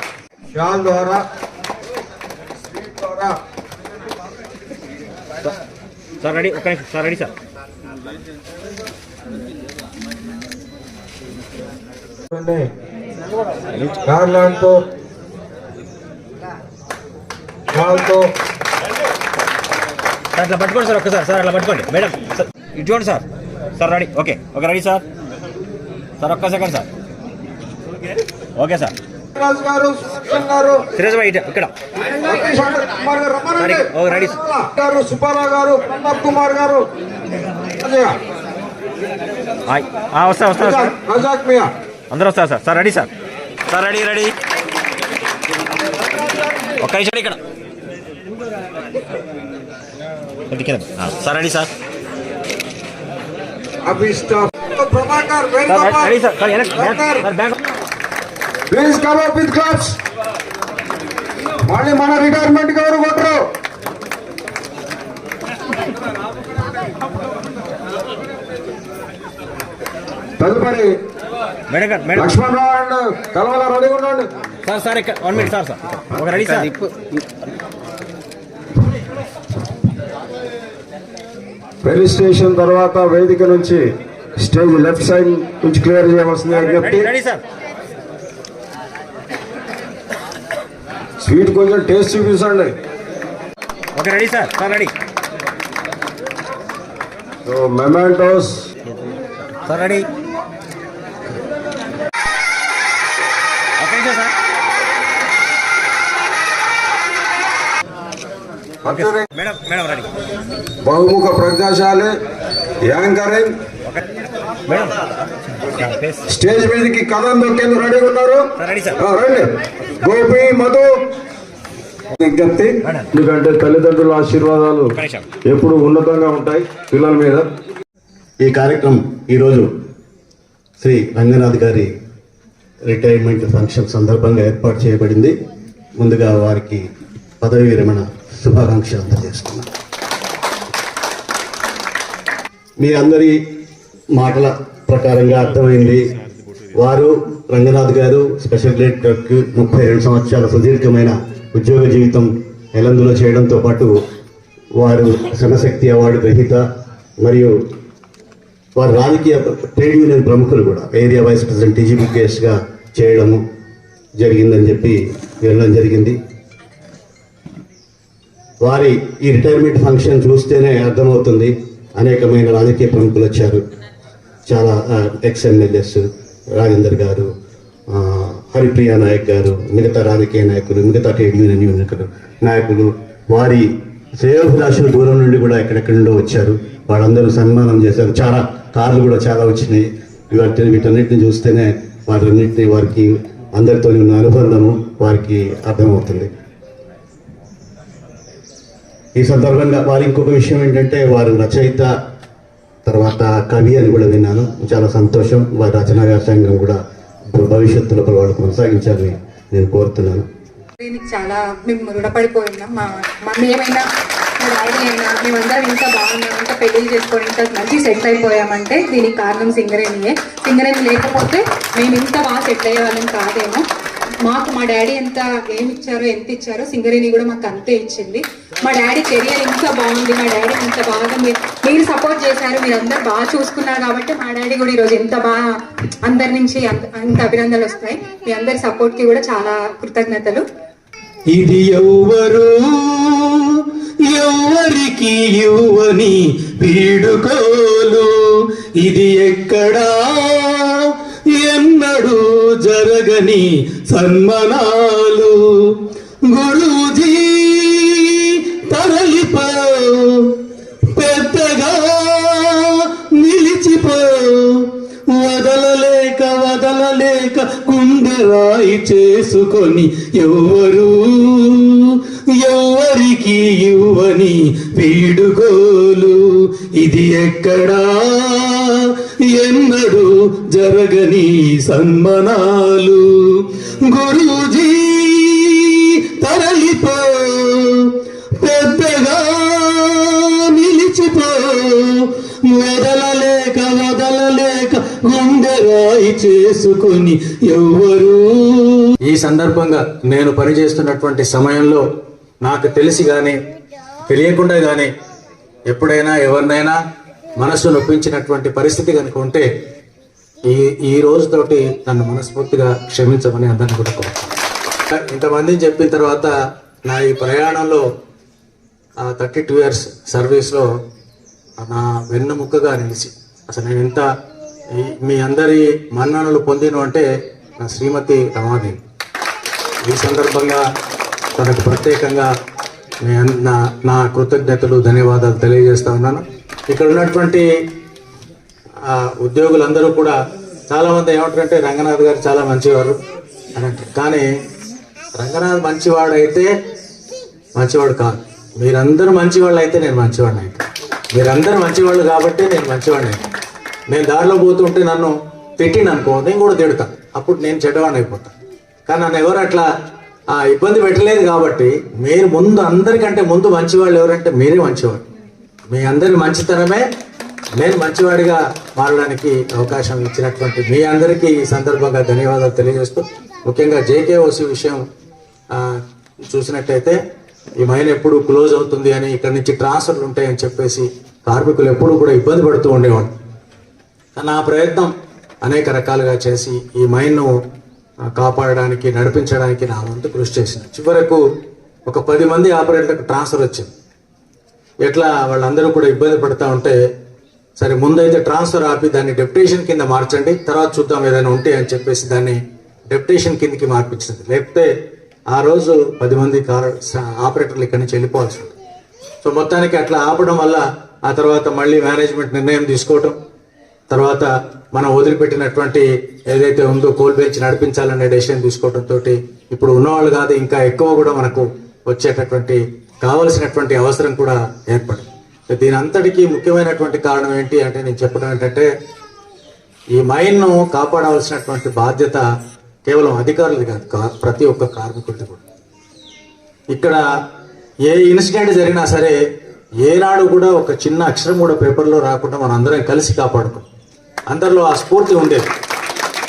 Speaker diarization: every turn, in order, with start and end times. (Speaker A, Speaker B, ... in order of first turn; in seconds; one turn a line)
Speaker A: 0.5-1.2
Speaker A: 2.7-3.4
Speaker B: 6.2-7.3
Speaker A: 12.3-12.7
Speaker A: 14.0-14.8
Speaker A: 17.7-18.3
Speaker B: 20.4-23.2
Speaker B: 23.8-25.0
Speaker B: 26.2-26.9
Speaker B: 28.6-28.9
Speaker A: 29.4-30.9
Speaker B: 30.9-31.7
Speaker A: 32.2-36.9
Speaker B: 33.6-34.4
Speaker A: 37.8-38.1
Speaker B: 39.7-40.9
Speaker A: 40.5-41.7
Speaker B: 42.1-43.1
Speaker B: 43.7-44.4
Speaker B: 46.8-47.4
Speaker B: 50.5-51.7
Speaker A: 53.9-57.3
Speaker B: 55.7-57.6
Speaker A: 58.7-60.0
Speaker A: 61.7-63.4
Speaker A: 70.4-70.9
Speaker B: 71.7-72.3
Speaker A: 72.2-74.3
Speaker B: 74.7-76.7
Speaker A: 81.8-83.8
Speaker A: 84.4-87.1
Speaker B: 86.5-87.4
Speaker A: 91.2-92.8
Speaker B: 94.0-94.9
Speaker A: 97.5-98.7
Speaker B: 99.7-100.1
Speaker B: 103.8-104.3
Speaker A: 108.8-109.3
Speaker B: 108.8-110.1
Speaker A: 110.8-112.1
Speaker A: 112.8-113.6
Speaker B: 114.7-114.9
Speaker B: 115.7-116.2
Speaker A: 116.3-118.5
Speaker B: 118.6-119.0
Speaker A: 119.0-119.5
Speaker A: 120.0-120.9
Speaker A: 122.2-124.9
Speaker B: 124.9-125.3
Speaker A: 125.5-127.5
Speaker C: 128.4-129.7
Speaker C: 130.8-131.9
Speaker C: 132.9-135.3
Speaker C: 136.0-136.8
Speaker C: 137.4-139.7
Speaker C: 142.8-143.4
Speaker C: 144.1-146.0
Speaker C: 146.8-153.9
Speaker C: 154.8-156.6
Speaker C: 157.2-157.5
Speaker C: 158.8-163.4
Speaker C: 164.2-166.2
Speaker C: 168.6-173.6
Speaker C: 174.5-177.3
Speaker C: 177.9-196.3
Speaker C: 199.2-201.9
Speaker C: 202.9-206.8
Speaker C: 207.3-210.2
Speaker D: 210.8-213.9
Speaker D: 214.4-223.6
Speaker D: 224.2-235.4
Speaker D: 236.0-240.4
Speaker E: 241.3-248.1
Speaker E: 248.8-298.9
Speaker F: 299.0-301.8
Speaker F: 302.4-303.4
Speaker F: 304.1-304.9
Speaker F: 305.7-306.8
Speaker F: 307.4-309.5
Speaker F: 310.4-314.3
Speaker F: 315.0-316.3
Speaker F: 316.9-317.8
Speaker F: 319.1-320.7
Speaker F: 321.6-324.1
Speaker F: 324.7-327.1
Speaker F: 327.6-328.8
Speaker F: 329.9-330.6
Speaker F: 331.4-332.3
Speaker F: 333.0-337.5
Speaker F: 338.9-340.2
Speaker F: 340.7-343.0
Speaker F: 343.6-344.3
Speaker F: 345.2-346.5
Speaker F: 347.6-350.6
Speaker F: 351.1-353.2
Speaker F: 353.9-358.3
Speaker F: 358.9-359.6
Speaker F: 360.3-365.1
Speaker F: 365.7-366.8
Speaker F: 367.6-374.8
Speaker F: 376.3-377.0
Speaker F: 377.6-383.1
Speaker F: 384.2-384.9
Speaker F: 385.4-387.3
Speaker F: 388.1-391.2
Speaker F: 391.9-393.7
Speaker F: 394.9-396.8
Speaker F: 397.6-402.4
Speaker F: 402.9-404.7
Speaker F: 405.3-408.5
Speaker F: 409.2-413.1
Speaker F: 413.9-428.7
Speaker F: 429.9-432.2
Speaker F: 432.9-435.4
Speaker F: 436.7-437.0
Speaker F: 437.9-439.2
Speaker F: 439.8-443.7
Speaker F: 444.3-445.5